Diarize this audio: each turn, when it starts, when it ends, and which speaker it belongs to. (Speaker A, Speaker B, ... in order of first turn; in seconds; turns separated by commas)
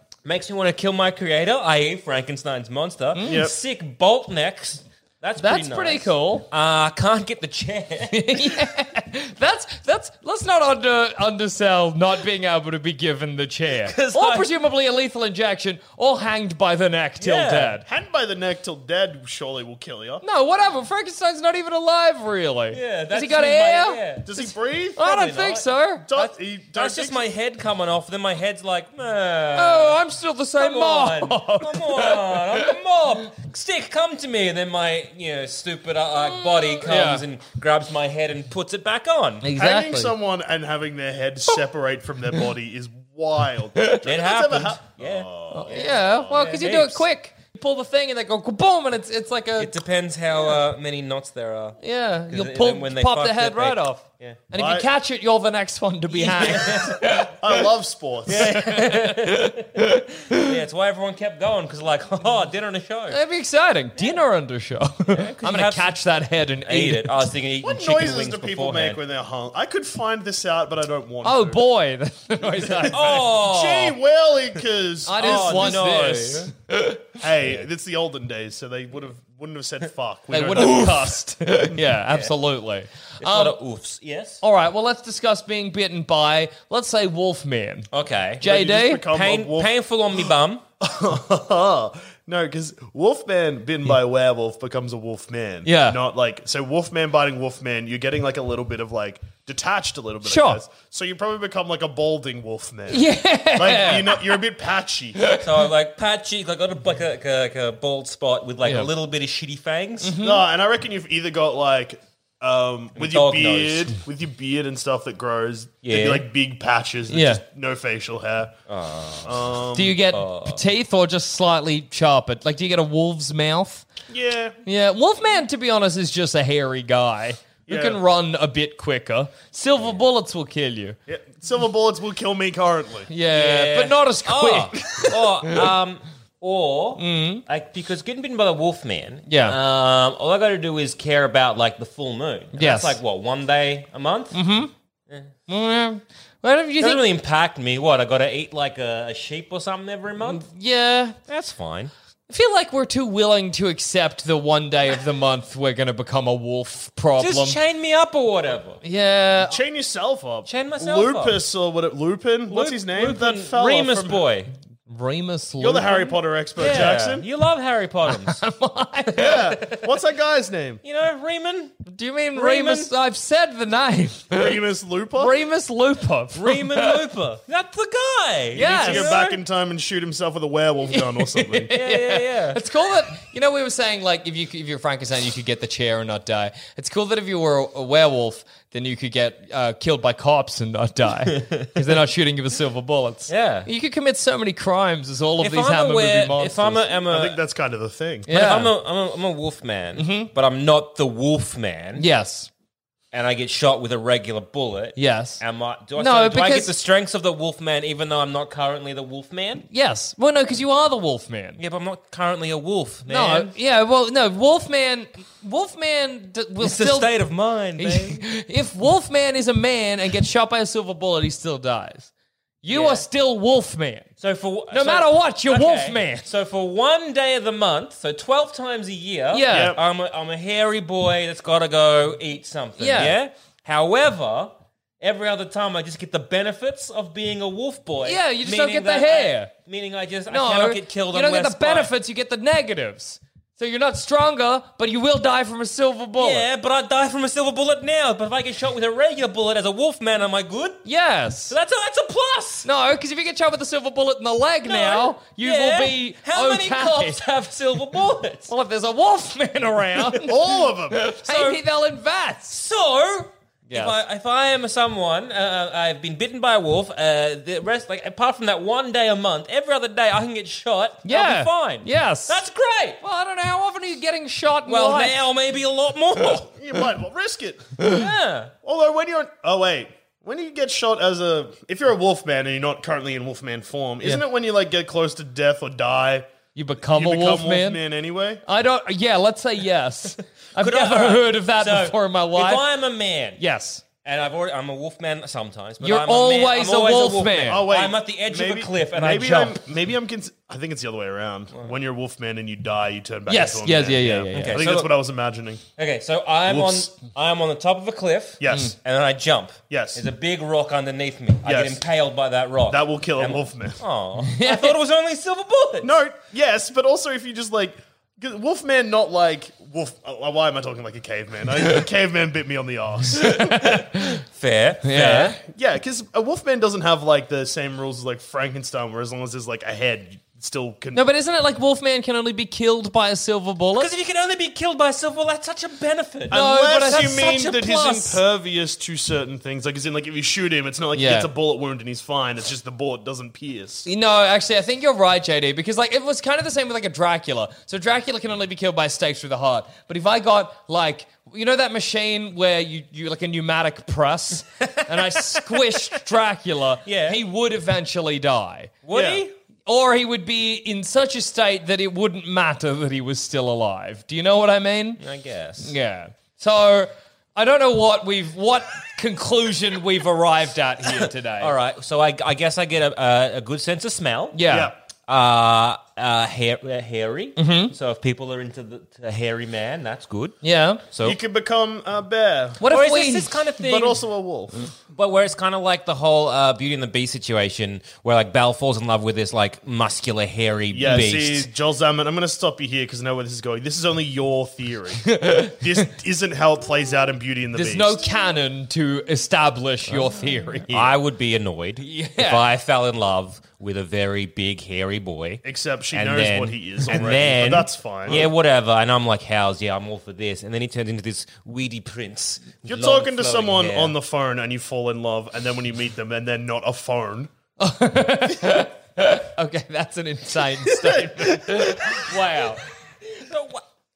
Speaker A: 0.2-8.6, Speaker B: 3.1-3.5, Speaker C: 3.2-3.5, Speaker B: 5.4-6.5, Speaker B: 8.1-17.8, Speaker A: 13.8-14.5, Speaker A: 17.2-17.8, Speaker C: 17.9-20.2, Speaker B: 20.2-26.1, Speaker A: 22.7-24.3, Speaker C: 24.2-25.1, Speaker A: 25.0-30.0, Speaker C: 26.1-27.2, Speaker B: 29.6-32.4, Speaker A: 30.6-39.4, Speaker B: 36.2-37.2, Speaker B: 39.4-40.1, Speaker C: 39.5-46.2, Speaker A: 44.0-47.0, Speaker B: 45.5-49.7, Speaker A: 49.6-54.4, Speaker B: 51.8-57.3, Speaker C: 54.5-54.9, Speaker A: 56.1-57.1, Speaker C: 57.1-58.6, Speaker A: 58.3-63.2, Speaker B: 58.3-60.5, Speaker B: 63.1-67.3, Speaker A: 65.1-65.9, Speaker A: 66.7-69.0, Speaker C: 67.6-71.6, Speaker B: 71.2-73.1, Speaker C: 72.6-75.8, Speaker A: 72.9-74.0, Speaker B: 75.0-77.0, Speaker A: 75.2-76.5, Speaker C: 77.2-81.0, Speaker B: 80.3-83.6, Speaker A: 80.6-80.9, Speaker A: 82.1-82.3, Speaker A: 83.2-84.4, Speaker B: 84.4-87.9, Speaker A: 87.9-88.4, Speaker B: 88.4-89.0, Speaker C: 88.4-89.7, Speaker A: 89.1-90.6, Speaker C: 90.8-105.3, Speaker B: 95.6-96.0, Speaker B: 100.2-100.6, Speaker B: 102.9-104.3, Speaker A: 105.4-110.2, Speaker B: 108.6-108.9, Speaker B: 110.0-110.4, Speaker C: 110.2-118.5, Speaker A: 113.0-113.9, Speaker A: 115.8-116.2, Speaker B: 117.1-117.4, Speaker A: 118.7-119.5, Speaker C: 119.2-120.0, Speaker B: 119.7-123.9, Speaker A: 120.0-120.6, Speaker C: 124.1-124.5, Speaker B: 124.6-130.9, Speaker C: 127.7-128.0, Speaker C: 131.1-133.1, Speaker B: 133.1-135.2, Speaker A: 133.3-144.4, Speaker B: 137.0-137.4, Speaker B: 139.3-139.6, Speaker B: 142.5-143.0, Speaker B: 144.3-144.7, Speaker B: 145.5-147.0, Speaker A: 146.8-150.4, Speaker B: 150.2-151.2, Speaker A: 151.3-151.9, Speaker B: 152.3-157.6, Speaker A: 157.2-158.8, Speaker B: 158.8-159.6, Speaker C: 159.4-164.2, Speaker A: 160.5-161.4, Speaker A: 162.5-164.5, Speaker B: 164.9-166.9, Speaker C: 165.6-167.2, Speaker A: 166.6-168.4, Speaker B: 168.1-169.4, Speaker C: 169.2-170.8, Speaker A: 170.8-171.8, Speaker B: 171.8-174.6, Speaker A: 172.3-172.9, Speaker C: 174.3-175.3, Speaker B: 175.2-176.9, Speaker A: 176.3-179.4, Speaker B: 178.5-179.2, Speaker C: 178.6-181.7, Speaker B: 180.9-196.8, Speaker A: 181.7-182.6, Speaker A: 191.3-191.7, Speaker A: 193.3-193.7, Speaker A: 195.4-197.4, Speaker C: 197.1-198.3, Speaker B: 198.3-198.7, Speaker A: 198.3-202.0, Speaker B: 200.0-200.3, Speaker B: 201.9-202.5, Speaker A: 203.1-209.6, Speaker B: 204.9-205.4, Speaker B: 206.0-206.7, Speaker B: 209.7-211.6, Speaker A: 211.6-213.5, Speaker B: 213.1-217.1, Speaker A: 216.6-218.2, Speaker B: 217.8-222.1, Speaker B: 222.6-224.1, Speaker A: 222.7-223.1, Speaker A: 224.2-241.9, Speaker B: 224.7-226.2, Speaker B: 229.3-229.8, Speaker C: 229.5-229.8, Speaker B: 232.8-233.2, Speaker B: 238.0-239.5, Speaker B: 240.3-246.4, Speaker A: 246.2-250.8, Speaker B: 250.8-251.5, Speaker A: 251.5-252.7, Speaker B: 252.6-257.2, Speaker A: 254.7-258.5, Speaker B: 258.5-260.4, Speaker C: 260.2-261.0, Speaker B: 260.9-262.6, Speaker A: 261.1-261.6, Speaker A: 262.5-273.0, Speaker B: 263.7-263.9, Speaker B: 271.0-272.4, Speaker B: 273.0-275.2, Speaker A: 274.6-276.5, Speaker C: 276.6-277.8, Speaker A: 277.8-278.5, Speaker C: 278.6-286.3, Speaker B: 286.5-287.8, Speaker C: 286.8-288.4, Speaker B: 288.4-292.6, Speaker A: 290.6-293.4, Speaker B: 293.4-293.8, Speaker A: 294.0-299.6, Speaker B: 295.8-297.7, Speaker C: 297.5-305.6, Speaker B: 303.3-304.7, Speaker A: 304.3-304.9, Speaker A: 305.8-315.9, Speaker C: 306.5-306.9, Speaker C: 308.4-308.7, Speaker C: 309.7-310.0, Speaker C: 311.4-311.8, Speaker C: 312.7-313.8, Speaker B: 314.3-314.8, Speaker C: 315.8-323.6, Speaker B: 323.5-324.0, Speaker A: 323.6-325.4, Speaker B: 324.8-325.4, Speaker C: 325.5-331.0, Speaker B: 330.9-333.9, Speaker A: 333.8-338.1, Speaker C: 336.3-343.9, Speaker B: 336.3-337.8, Speaker B: 340.9-341.3, Speaker B: 343.9-358.8, Speaker A: 354.6-355.6, Speaker A: 356.9-357.2, Speaker A: 358.8-359.3, Speaker C: 358.9-359.2, Speaker B: 359.6-365.0, Speaker A: 365.0-365.7, Speaker B: 365.6-371.5, Speaker A: 371.4-374.4, Speaker B: 374.3-374.7, Speaker C: 374.5-374.7, Speaker A: 375.1-380.4, Speaker B: 377.4-377.7, Speaker B: 380.4-380.8, Speaker A: 380.9-381.2, Speaker C: 381.0-382.6, Speaker B: 382.6-383.4, Speaker A: 382.7-384.0, Speaker C: 383.6-384.6, Speaker A: 384.9-391.5, Speaker C: 390.7-398.0, Speaker B: 395.1-395.6, Speaker B: 397.5-400.9, Speaker A: 400.7-413.9, Speaker B: 401.8-402.4, Speaker C: 405.4-408.3, Speaker C: 412.6-417.3, Speaker B: 417.6-422.6, Speaker C: 420.7-421.8, Speaker A: 423.1-423.6